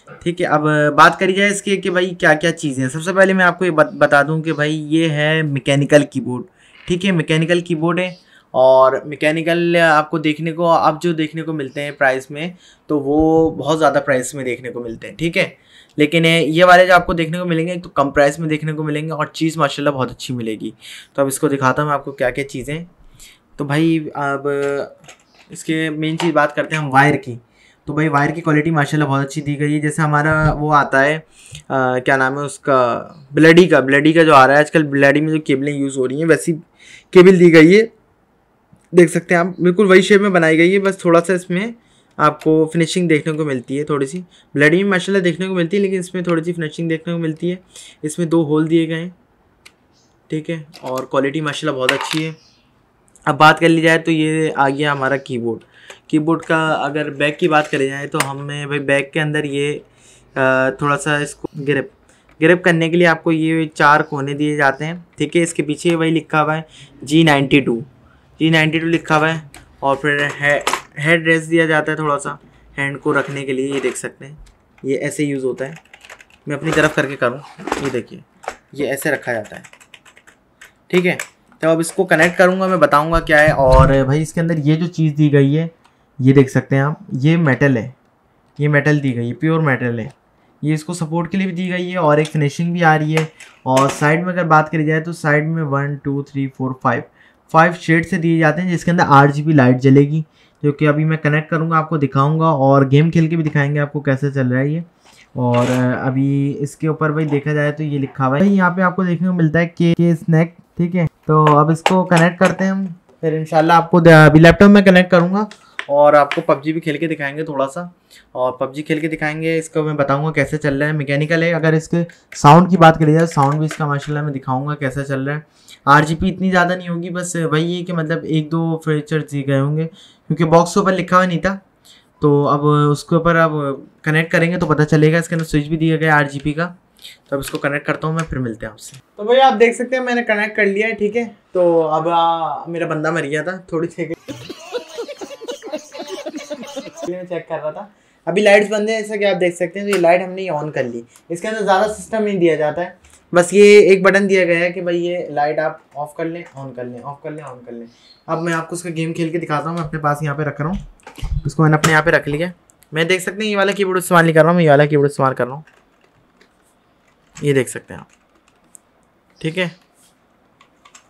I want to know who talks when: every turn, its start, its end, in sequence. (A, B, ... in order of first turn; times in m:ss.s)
0:00.2-0:22.9 A
0:23.6-0:25.0 A
0:25.5-0:37.9 A
0:38.9-0:49.2 A
0:50.3-0:52.4 A
0:53.3-1:07.9 A
1:08.4-1:15.8 A
1:16.5-1:19.7 A
1:20.9-1:28.0 A
1:28.6-2:11.6 A
2:12.2-2:16.8 A
2:17.3-2:24.3 A
2:26.8-2:40.8 A
2:41.4-2:45.6 A
2:47.4-2:48.1 A
2:49.4-2:49.8 A